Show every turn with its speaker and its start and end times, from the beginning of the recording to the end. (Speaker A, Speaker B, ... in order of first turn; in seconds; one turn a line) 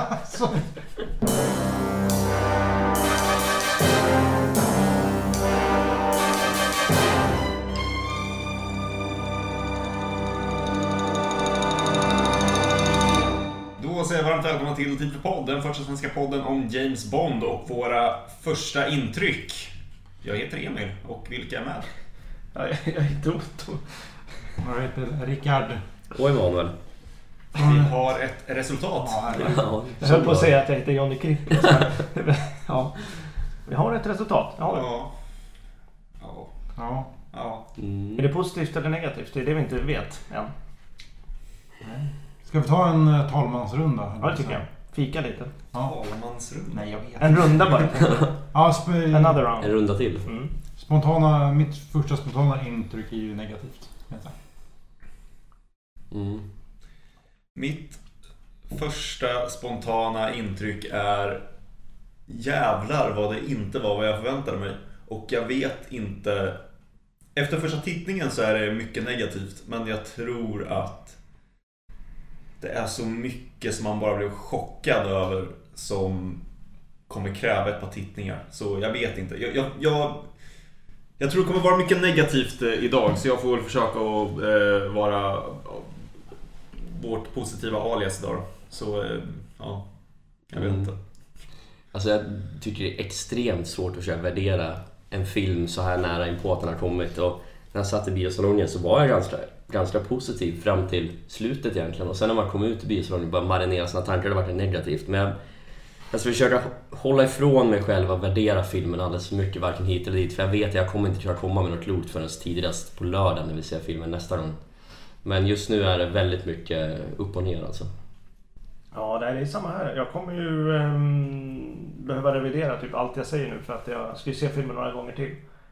Speaker A: 0.2-0.6
Speaker B: 13.8-21.9
Speaker C: 22.5-24.5
Speaker A: 24.6-25.8
Speaker D: 26.1-26.7
Speaker A: 27.6-27.9
Speaker B: 27.6-29.7
Speaker A: 29.0-29.7
Speaker D: 29.4-30.6
Speaker C: 30.0-34.9
Speaker B: 34.7-35.1
Speaker B: 36.2-36.5
Speaker A: 36.8-37.1
Speaker B: 37.3-37.7
Speaker D: 37.8-38.2
Speaker C: 38.2-40.5
Speaker A: 41.8-44.6
Speaker C: 44.2-45.5
Speaker B: 45.8-47.1
Speaker A: 46.7-49.5
Speaker C: 47.2-48.3
Speaker D: 48.0-48.3
Speaker C: 49.1-50.5
Speaker D: 49.6-50.3
Speaker A: 50.8-54.3
Speaker D: 56.1-56.4
Speaker B: 57.5-58.0
Speaker B: 58.7-61.4
Speaker B: 62.3-66.6
Speaker B: 67.3-71.2
Speaker B: 72.6-76.4
Speaker B: 77.1-80.3
Speaker B: 81.2-86.0
Speaker B: 86.7-89.9
Speaker B: 90.5-91.0
Speaker D: 90.6-90.9
Speaker D: 91.9-105.3
Speaker D: 106.1-114.6
Speaker D: 115.2-117.9
Speaker C: 118.9-125.4